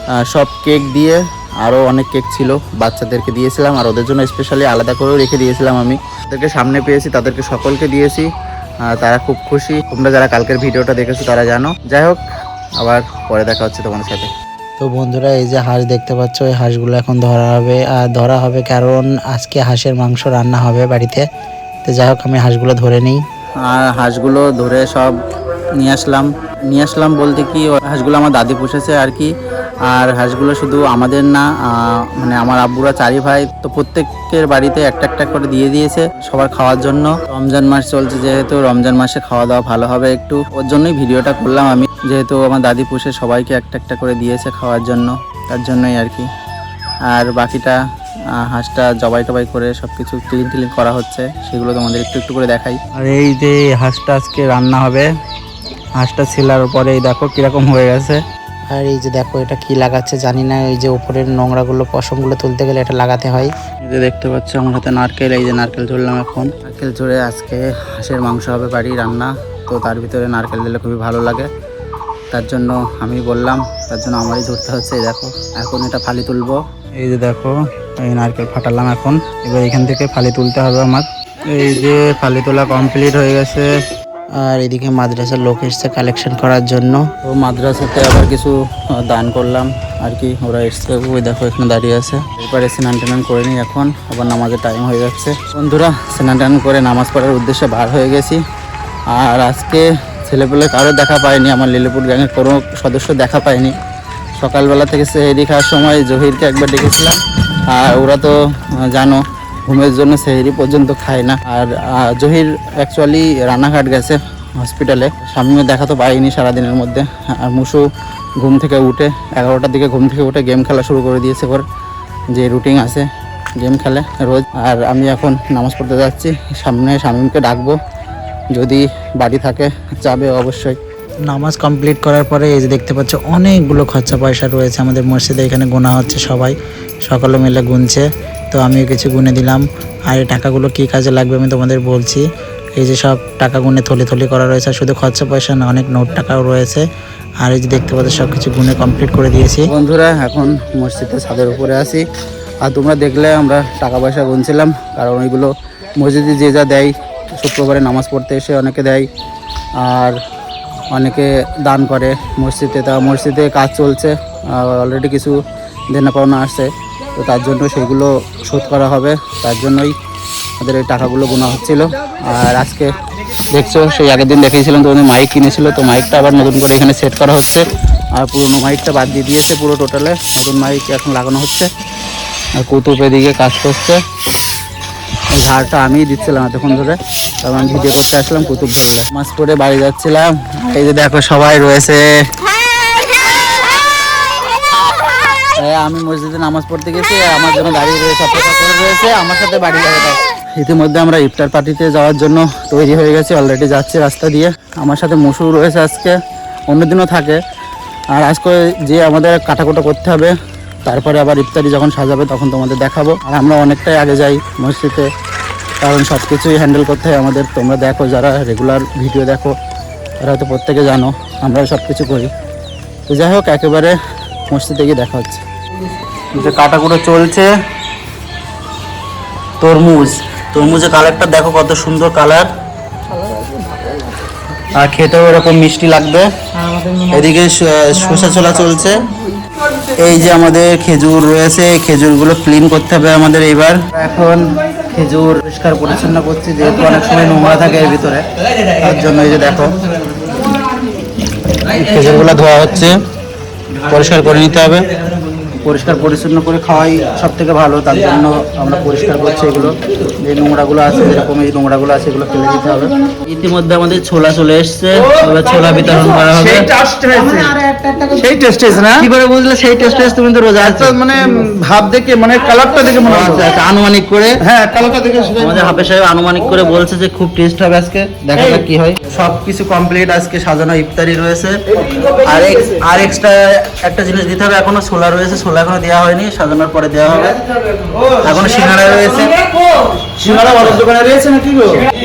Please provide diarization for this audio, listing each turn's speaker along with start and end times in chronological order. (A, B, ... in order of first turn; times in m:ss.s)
0:00.3-0:08.3 A
0:08.9-0:12.2 A
0:12.8-0:14.3 A
0:14.8-0:21.3 B
0:21.8-0:23.2 B
0:23.6-0:25.2 A
0:25.8-0:29.3 A
0:29.9-0:46.3 A
0:47.1-0:47.8 A
0:48.3-0:55.1 A
0:56.0-0:58.2 A
0:58.7-1:03.5 B
1:03.8-1:11.5 A
1:12.3-1:23.7 A
1:24.4-1:27.1 B
1:27.2-1:38.4 A
1:39.1-1:43.8 A
1:44.4-1:57.9 A
1:58.4-2:01.6 A
2:02.3-2:03.1 A
2:03.6-2:07.8 A
2:08.6-2:10.8 A
2:11.3-2:16.6 B
2:17.1-2:26.8 B
2:27.4-2:29.7 B
2:29.7-2:32.0 A
2:32.6-2:39.1 A
2:39.8-2:40.2 A
2:40.9-2:45.4 A
2:45.9-2:49.9 A
2:50.6-2:53.0 A
2:53.5-2:57.6 A
2:58.2-3:01.7 A
3:02.6-3:04.0 A
3:05.3-3:12.1 A
3:15.6-3:26.2 A
3:26.7-3:27.4 A
3:28.1-3:35.1 A
3:35.8-3:39.6 A
3:40.2-3:42.3 A
3:43.1-3:44.0 A
3:44.5-3:45.4 A
3:46.3-3:47.5 A
3:49.6-3:52.5 A
3:53.4-3:54.0 B
3:54.7-3:56.3 A
3:57.0-3:59.0 A
4:00.0-4:09.8 A
4:11.6-4:13.0 A
4:13.8-4:14.9 A
4:15.6-4:26.7 A
4:26.3-4:29.0 C
4:28.9-4:31.4 A
4:30.8-4:33.2 C
4:32.1-4:34.5 A
4:34.5-4:35.6 C
4:35.4-4:47.4 A
4:48.0-4:49.4 A
4:50.2-4:51.0 A
4:50.2-4:51.9 C